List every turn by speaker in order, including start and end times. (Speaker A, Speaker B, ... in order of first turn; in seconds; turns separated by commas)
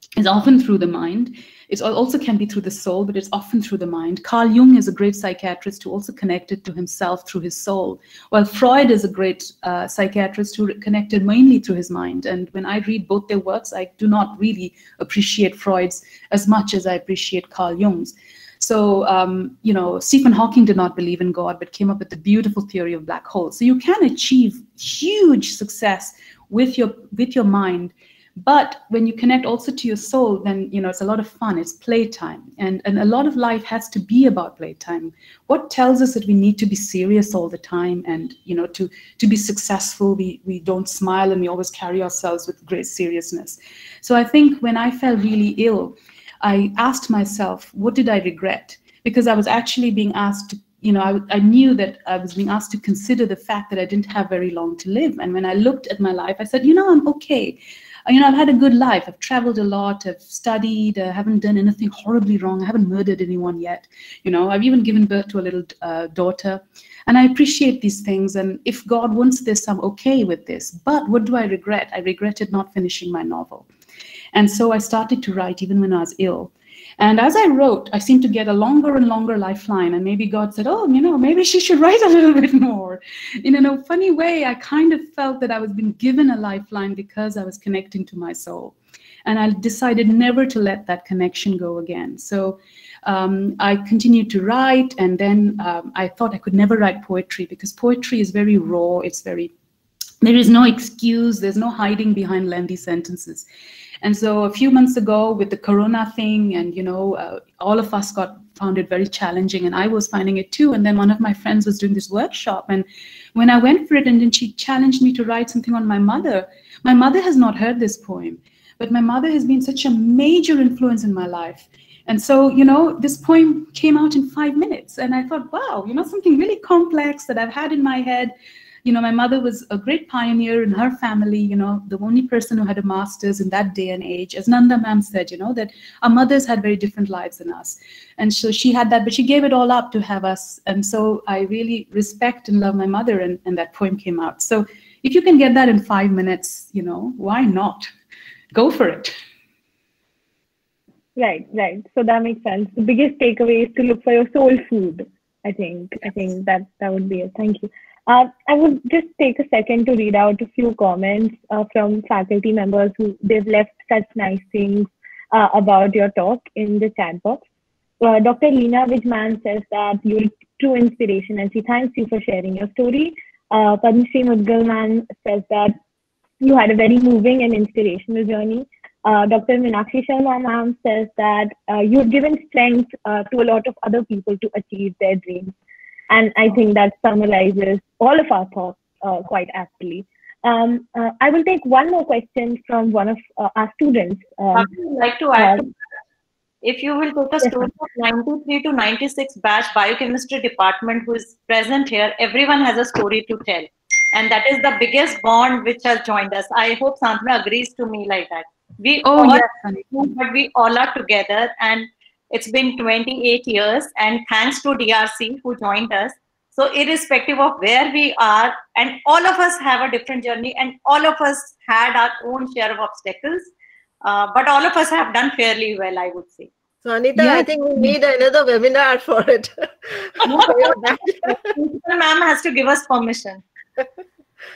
Speaker A: 0.2-73.7, Speaker A: 74.3-99.5, Speaker A: 100.2-103.5, Speaker A: 104.0-128.3, Speaker A: 128.8-147.9, Speaker A: 148.5-149.2, Speaker B: 151.2-167.4, Speaker B: 168.0-175.8, Speaker B: 176.4-185.5, Speaker B: 186.1-194.7, Speaker C: 194.5-195.7, Speaker B: 195.3-195.7, Speaker C: 196.6-223.5, Speaker B: 197.4-197.7, Speaker A: 209.1-209.9, Speaker C: 224.0-226.5, Speaker D: 226.8-231.4, Speaker C: 230.2-233.4